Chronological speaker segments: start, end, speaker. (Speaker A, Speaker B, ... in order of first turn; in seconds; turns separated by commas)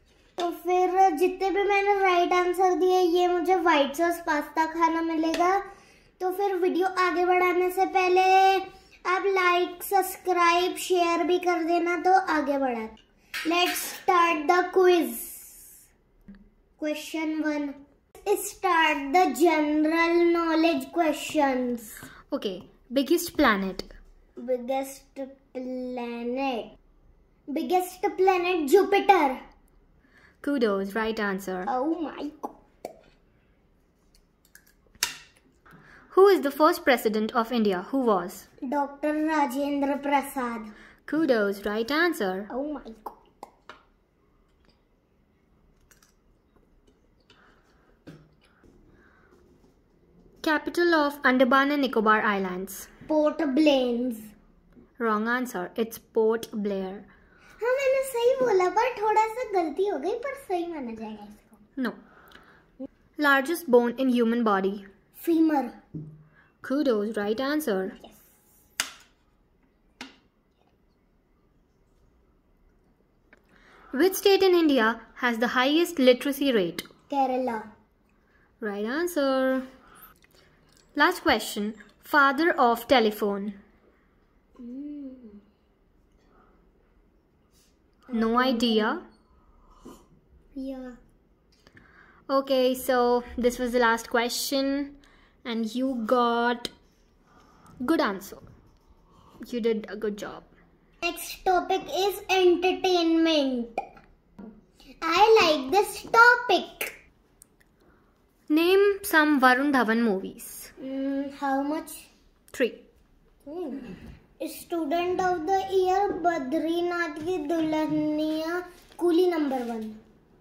Speaker A: 0.4-5.6, Speaker A: 6.2-15.7, Speaker A: 16.8-22.0, Speaker B: 22.3-23.9, Speaker A: 24.4-26.7, Speaker A: 27.5-29.4, Speaker B: 30.4-31.7, Speaker A: 31.7-32.5, Speaker B: 36.1-38.5, Speaker A: 38.7-40.7, Speaker B: 41.1-42.5, Speaker A: 42.5-43.2, Speaker B: 50.4-52.9, Speaker A: 53.1-54.3, Speaker B: 55.0-57.1, Speaker A: 57.6-61.5, Speaker B: 63.2-64.9, Speaker A: 65.2-65.8, Speaker B: 66.6-68.0, Speaker B: 73.9-76.9, Speaker A: 77.1-77.7, Speaker B: 78.6-79.7, Speaker B: 81.0-83.6, Speaker A: 84.6-85.4, Speaker A: 88.1-89.0, Speaker B: 88.1-89.0, Speaker A: 90.5-91.0, Speaker B: 92.3-96.7, Speaker B: 97.8-98.4, Speaker B: 99.4-100.5, Speaker A: 101.0-103.8, Speaker A: 105.0-107.0, Speaker B: 108.5-110.7, Speaker A: 110.8-112.0, Speaker B: 112.5-112.8, Speaker A: 113.5-120.0